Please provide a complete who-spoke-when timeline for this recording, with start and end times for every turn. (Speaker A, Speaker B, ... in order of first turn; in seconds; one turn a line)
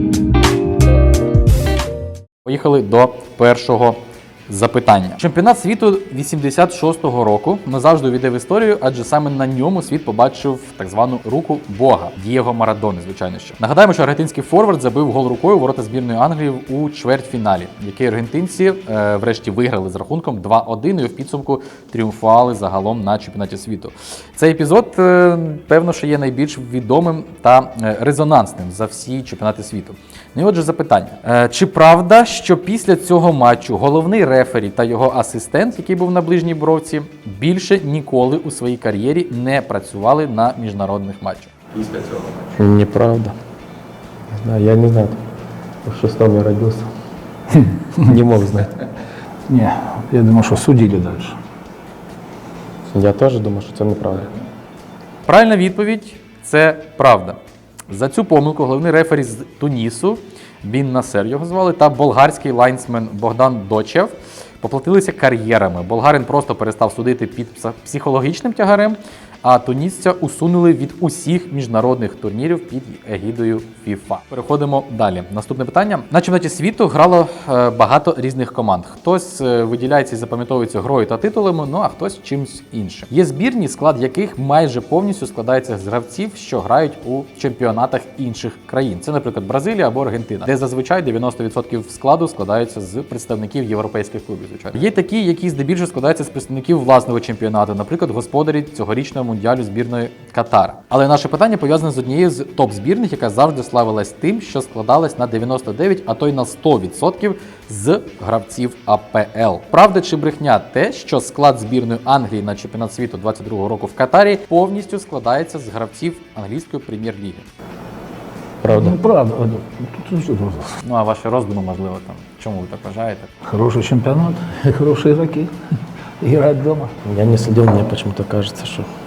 Speaker A: 2.5-42.6
Speaker B: 42.6-43.4
Speaker B: 44.4-45.2
Speaker B: 45.9-46.9
Speaker C: 47.5-48.2
Speaker B: 48.0-48.7
Speaker C: 49.5-51.4
Speaker B: 52.9-54.3
Speaker A: 55.3-57.4
Speaker A: 57.9-117.5
Speaker B: 118.6-119.0
Speaker C: 118.7-120.8
Speaker A: 120.8-123.3
Speaker C: 123.5-125.5
Speaker C: 126.2-126.9
Speaker B: 127.0-128.9